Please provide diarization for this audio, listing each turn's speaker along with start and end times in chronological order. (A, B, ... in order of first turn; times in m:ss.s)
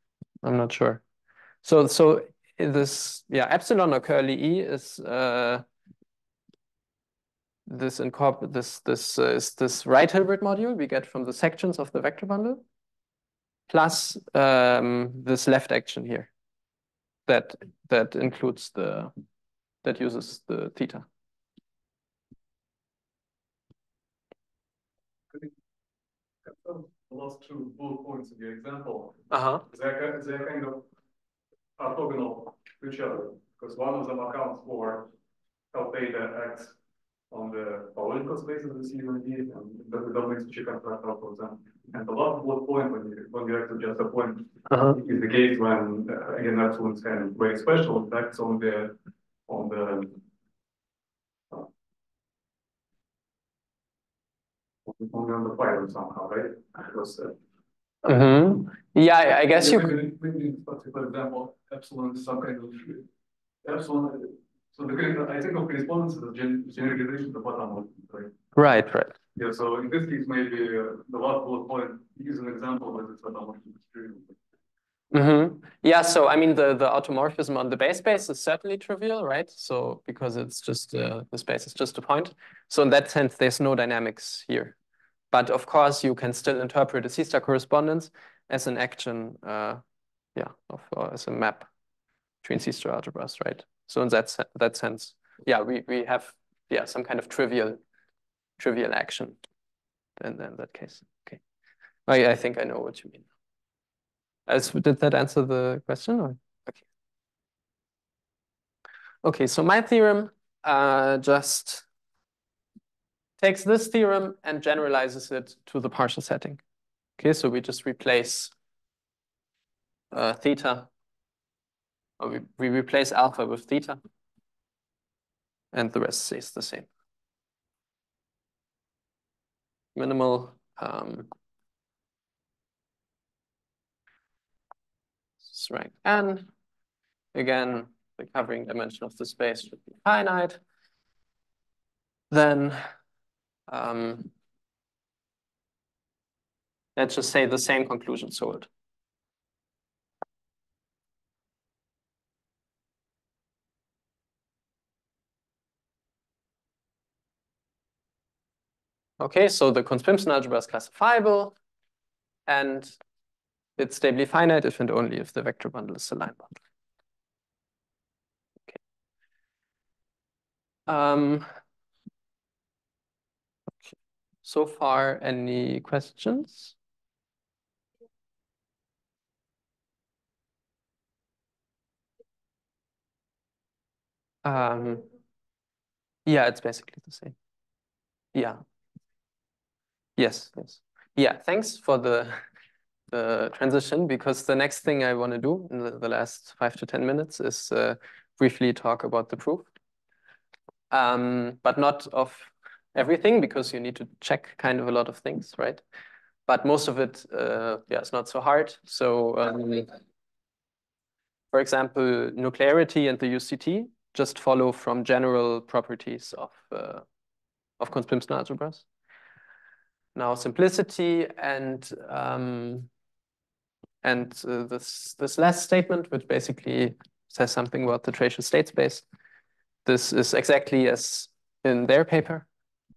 0:00.4-0:01.0 A
0:01.6-0:05.6 A
0:07.7-0:12.6 A
0:13.7-0:16.3 A
0:17.3-0:19.1 A
0:19.8-0:21.0 A
0:26.4-0:30.9 B
0:29.3-0:29.6 A
0:31.8-0:35.1 B
0:35.7-0:36.8 B
0:37.3-0:49.0 B
0:44.7-0:45.0 A
0:49.5-0:50.2 B
0:54.8-0:57.4 B
0:58.0-1:00.0 A
0:59.5-1:03.1 B
1:03.6-1:08.4 B
1:08.6-1:09.1 A
1:09.3-1:14.3 B
1:15.1-1:24.7 A
1:25.3-1:29.8 A
1:30.4-1:31.7 A
1:32.4-1:37.8 A
1:38.6-1:39.4 A
1:40.2-1:41.4 A
1:42.1-1:43.2 A
1:44.5-1:46.8 A
1:49.2-1:51.8 A
1:53.4-1:56.6 A
1:57.2-1:58.5 A
2:00.1-2:00.9 A
2:02.2-2:04.0 A
2:05.7-2:06.9 A
2:10.0-2:11.3 A
2:15.4-2:16.5 A
2:17.3-2:20.6 A
2:22.3-2:22.8 A
2:23.7-2:24.3 A
2:27.0-2:28.7 A
2:39.2-2:41.5 A
2:42.5-2:43.0 A
2:43.8-2:46.6 A
2:50.9-2:51.5 A
2:54.4-2:56.7 A
3:04.4-3:05.0 A
3:06.2-3:07.3 A
3:08.3-3:08.6 A
3:10.2-3:12.4 A
3:13.1-3:19.7 A
3:20.9-3:25.8 A
3:26.5-3:29.9 A
3:31.5-3:37.0 A
3:37.8-3:38.8 A
3:40.1-3:42.9 A
3:44.0-3:49.0 A
3:49.8-3:52.5 A